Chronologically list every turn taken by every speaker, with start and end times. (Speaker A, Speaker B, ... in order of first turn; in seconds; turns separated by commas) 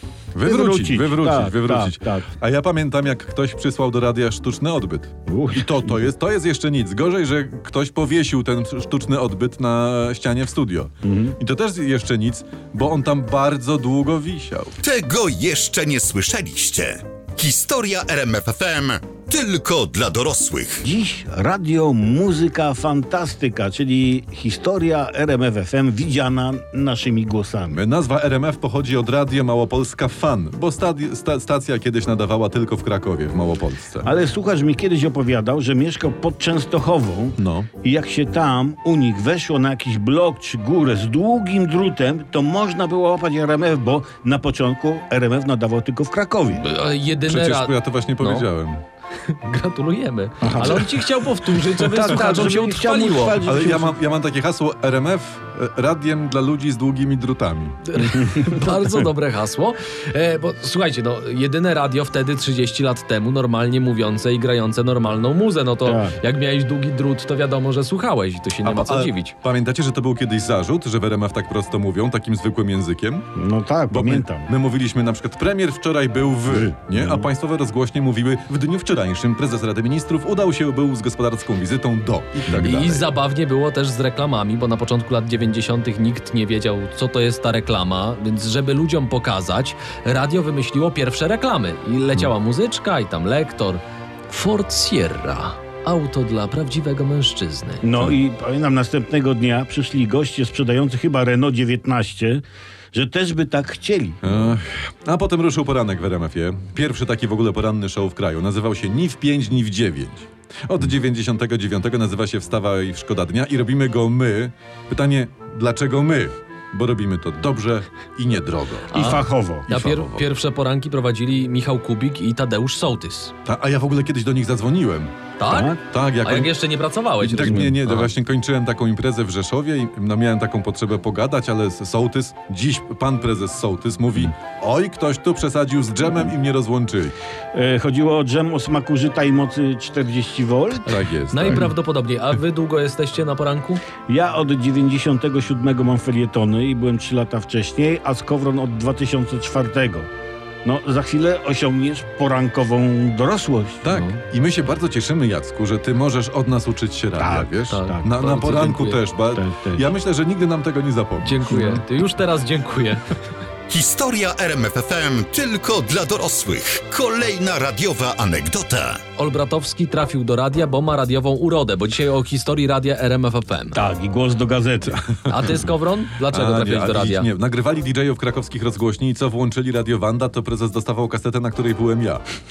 Speaker A: 0.3-14.8, Speaker B: 0.4-2.3, Speaker B: 5.3-6.1, Speaker B: 11.0-11.3, Speaker C: 14.8-20.8, Speaker B: 20.8-27.8, Speaker A: 27.7-34.1, Speaker B: 34.0-46.6, Speaker A: 37.4-37.7, Speaker D: 46.5-48.5, Speaker A: 47.2-48.8, Speaker D: 49.2-53.4, Speaker B: 50.4-51.0, Speaker B: 51.8-54.0, Speaker A: 53.4-57.9, Speaker D: 57.9-69.3, Speaker B: 58.0-58.6, Speaker B: 65.8-66.2, Speaker A: 68.6-73.3, Speaker B: 73.3-74.5, Speaker A: 73.9-83.1, Speaker B: 76.5-77.3, Speaker D: 82.5-98.2, Speaker B: 97.8-104.3, Speaker A: 104.2-119.0, Speaker B: 118.9-119.6, Speaker D: 118.9-123.3, Speaker A: 119.7-120.2, Speaker A: 123.4-125.1, Speaker D: 125.4-128.1, Speaker B: 125.5-125.8, Speaker A: 125.9-126.5, Speaker A: 127.2-137.1, Speaker B: 127.4-127.7, Speaker B: 137.5-141.7, Speaker A: 140.8-141.7, Speaker D: 141.3-143.8, Speaker B: 144.1-150.1, Speaker B: 150.6-153.8, Speaker A: 153.8-161.6, Speaker D: 153.9-154.2, Speaker B: 157.2-158.1, Speaker D: 157.7-159.0, Speaker B: 159.3-159.9, Speaker D: 161.2-163.1, Speaker B: 161.5-161.8, Speaker C: 163.7-169.0, Speaker D: 169.2-173.8, Speaker B: 173.7-175.1, Speaker D: 175.3-177.3, Speaker A: 176.3-182.2